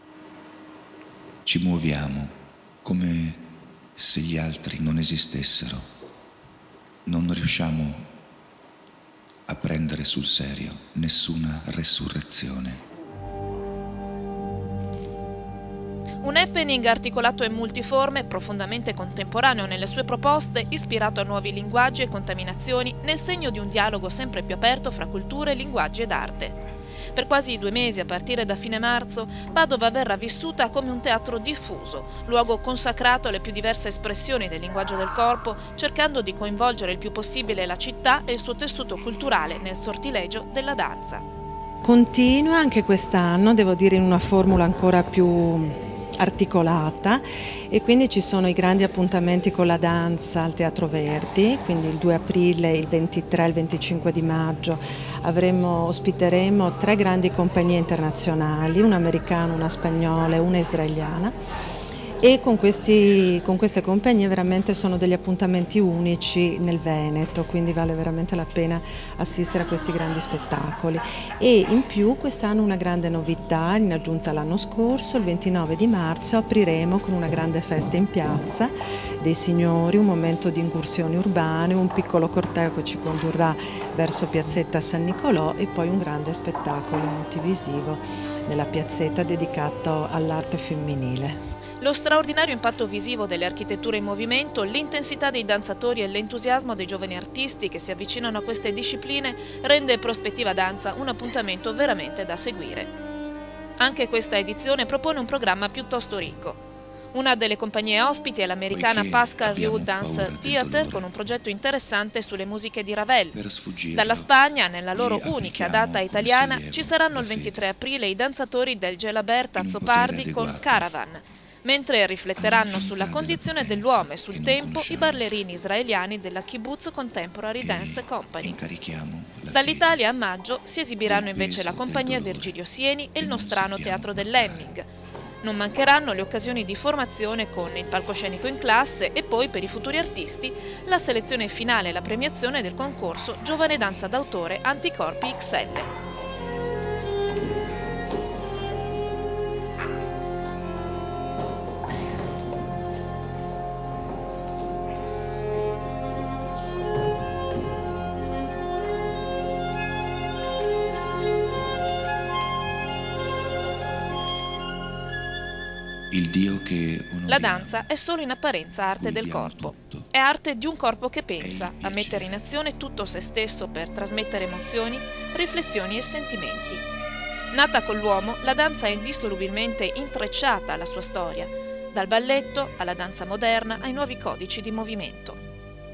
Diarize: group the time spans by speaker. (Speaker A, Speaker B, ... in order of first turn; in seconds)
Speaker A: 1.4-3.4, 4.0-5.8, 7.0-8.1, 9.5-12.8, 108.7-111.1, 113.3-114.3, 114.9-117.7, 119.5-120.9, 122.4-125.3, 127.6-130.0, 131.0-132.6, 133.2-134.7, 166.1-167.9, 169.0-170.1, 171.4-172.4
Speaker B: 16.2-26.6, 27.1-41.2, 91.8-102.9, 103.8-106.6, 107.1-113.4, 113.9-128.6, 129.5-134.8, 135.4-145.9, 167.3-176.8, 177.5-185.4
Speaker C: 41.8-61.3, 62.2-91.4